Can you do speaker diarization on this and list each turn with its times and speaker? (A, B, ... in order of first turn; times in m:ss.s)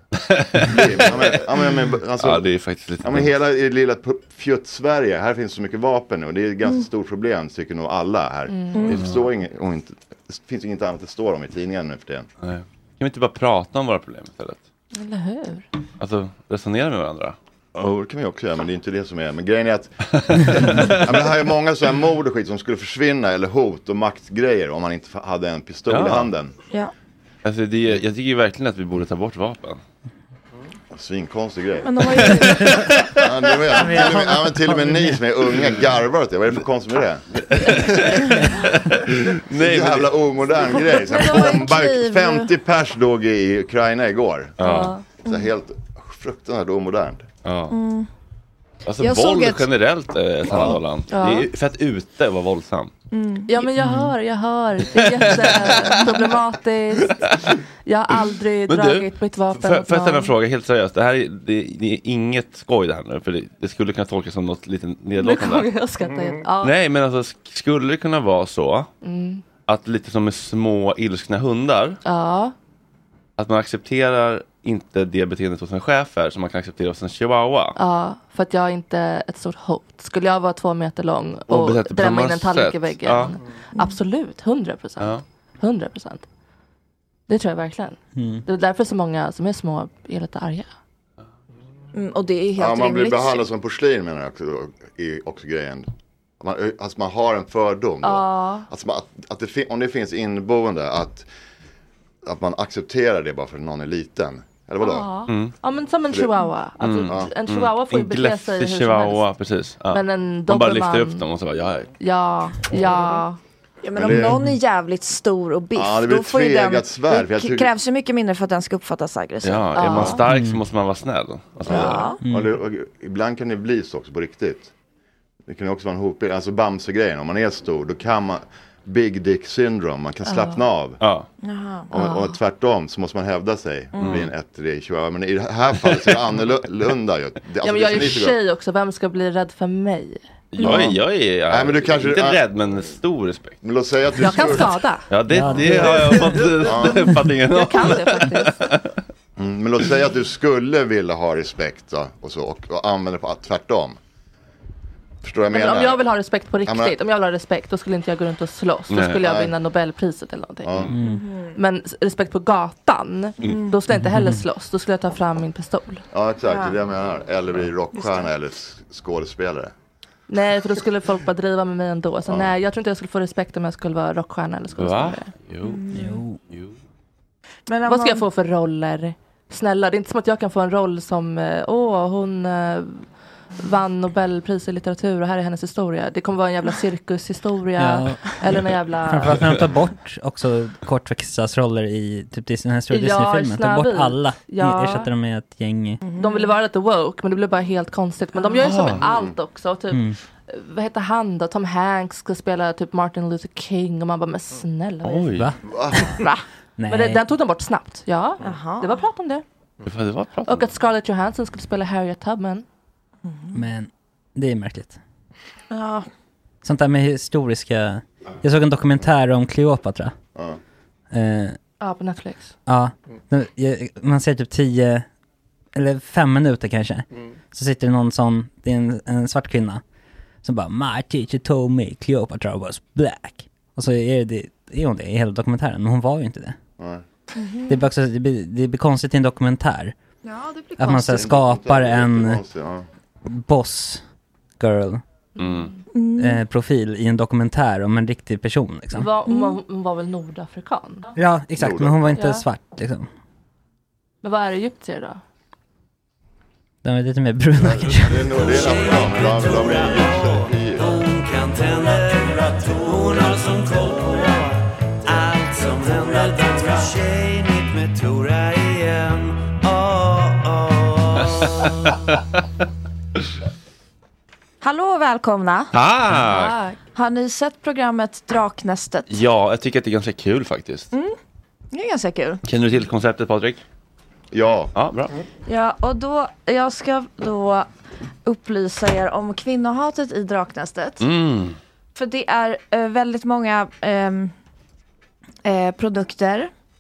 0:00.3-0:03.3 A
0:00.6-0:02.5 B
0:03.0-0:12.3 B
0:08.5-0:08.9 C
0:08.7-0:09.0 D
0:08.9-0:09.2 A
0:12.4-0:14.6 A
0:14.9-0:15.7 C
0:16.0-0:17.4 A
0:17.8-0:26.5 B
0:20.1-0:21.2 A
0:25.9-0:26.3 A
0:27.4-0:29.8 A
0:30.9-0:38.3 B
0:31.8-0:33.0 D
0:32.1-0:33.3 A
0:33.8-0:35.2 E
0:37.5-0:40.2 A
0:39.5-0:44.6 B
0:40.9-0:42.5 D
0:44.6-0:45.0 A
0:44.6-0:45.0 C
0:45.2-0:47.3 B
0:47.4-0:47.8 A
0:47.7-0:48.1 D
0:48.9-0:52.9 A
0:49.0-0:49.7 D
0:50.5-0:50.8 B
0:51.1-0:51.5 C
0:53.1-0:53.6 D
0:53.5-0:57.3 C
0:53.8-0:54.1 E
0:54.9-0:56.3 A
0:57.0-0:57.6 A
0:57.8-1:00.3 C
0:58.2-1:05.7 A
1:05.2-1:06.7 C
1:06.6-1:08.9 A
1:09.0-1:09.4 C
1:09.7-1:12.0 A
1:12.0-1:12.5 C
1:13.4-1:17.8 A
1:17.8-1:26.2 C
1:21.5-1:23.4 A
1:27.3-1:30.7 C
1:28.2-1:28.4 E
1:31.9-1:33.4 D
1:32.6-1:35.9 B
1:36.4-1:41.3 B
1:38.0-1:38.7 C
1:42.2-1:45.1 B
1:44.8-1:49.2 C
1:45.3-1:45.5 A
1:46.8-1:51.9 A
1:49.9-1:51.3 C
1:52.0-1:53.4 C
1:53.8-2:00.2 D
1:54.0-1:54.4 B
1:55.8-1:57.7 B
1:59.4-2:02.2 A
1:59.8-2:00.2 C
2:00.3-2:00.6 E
2:01.6-2:04.7 B
2:01.7-2:02.2 D
2:02.2-2:02.5 E
2:05.5-2:11.0 B
2:10.2-2:10.6 C
2:11.0-2:11.3 A
2:11.4-2:11.9 D
2:11.9-2:18.4 B
2:12.0-2:12.3 C
2:14.0-2:14.3 A
2:17.6-2:20.3 C
2:20.5-2:23.6 A
2:20.6-2:22.4 B
2:23.6-2:24.8 B
2:24.2-2:28.6 C
2:25.1-2:29.0 A
2:25.3-2:26.1 E
2:26.6-2:27.1 B
2:29.4-2:34.0 B
2:35.2-2:36.0 B
2:35.5-2:40.8 C
2:36.6-2:37.0 B
2:38.9-2:39.2 A
2:39.2-2:39.5 B
2:40.6-2:40.9 B
2:40.9-2:41.2 E
2:41.0-2:41.6 D
2:41.6-2:46.0 C
2:43.4-2:43.8 D
2:43.9-2:44.4 E
2:46.1-2:49.7 B
2:46.5-2:46.8 D
2:50.3-2:55.3 C
2:52.3-2:52.5 B
2:54.8-2:55.8 A
2:55.6-2:56.2 D
2:55.9-2:56.4 E
2:56.5-2:56.7 A
2:57.7-2:58.2 D
2:57.9-3:09.5 C
3:07.8-3:08.5 E
3:09.0-3:16.0 E
3:12.9-3:15.1 C
3:16.0-3:16.5 D
3:16.2-3:25.4 C
3:18.6-3:19.0 A
3:19.0-3:19.4 B
3:19.9-3:20.2 E
3:25.0-3:25.5 A
3:25.6-3:26.2 B
3:26.8-3:27.2 E
3:26.9-3:29.4 C
3:28.4-3:29.0 D
3:29.8-3:30.7 A
3:30.5-3:32.6 C
3:33.3-3:33.6 D
3:33.5-3:35.0 E
3:35.7-3:36.1 D
3:36.6-3:40.2 E
3:41.1-3:41.6 E
3:41.8-3:42.5 C
3:42.7-3:45.1 E
3:45.8-3:49.8 E
3:50.4-3:56.6 E
3:57.4-3:57.8 D
3:57.7-3:59.9 E
4:00.2-4:01.3 D
4:00.8-4:02.4 E
4:01.0-4:02.9 B
4:03.3-4:04.0 E
4:04.6-4:05.0 E
4:05.4-4:05.7 A
4:05.4-4:05.8 C
4:05.9-4:06.4 D
4:06.2-4:09.1 E
4:08.9-4:11.1 C
4:09.3-4:09.6 D
4:11.2-4:13.1 E
4:11.6-4:12.1 B
4:12.1-4:12.4 C
4:14.2-4:15.2 C
4:16.8-4:18.3 E
4:17.6-4:20.9 B
4:18.4-4:31.9 F
4:34.6-4:35.7 D
4:35.7-4:36.6 A
4:36.2-4:36.8 C
4:37.0-4:39.1 D
4:39.1-4:40.9 A
4:41.7-4:42.4 D
4:42.5-4:43.6 A
4:44.3-4:44.7 B
4:44.8-4:45.1 A
4:45.5-4:47.7 D
4:48.3-4:51.1 D
4:51.0-4:51.6 A
4:52.0-4:54.3 D
4:55.4-4:56.5 D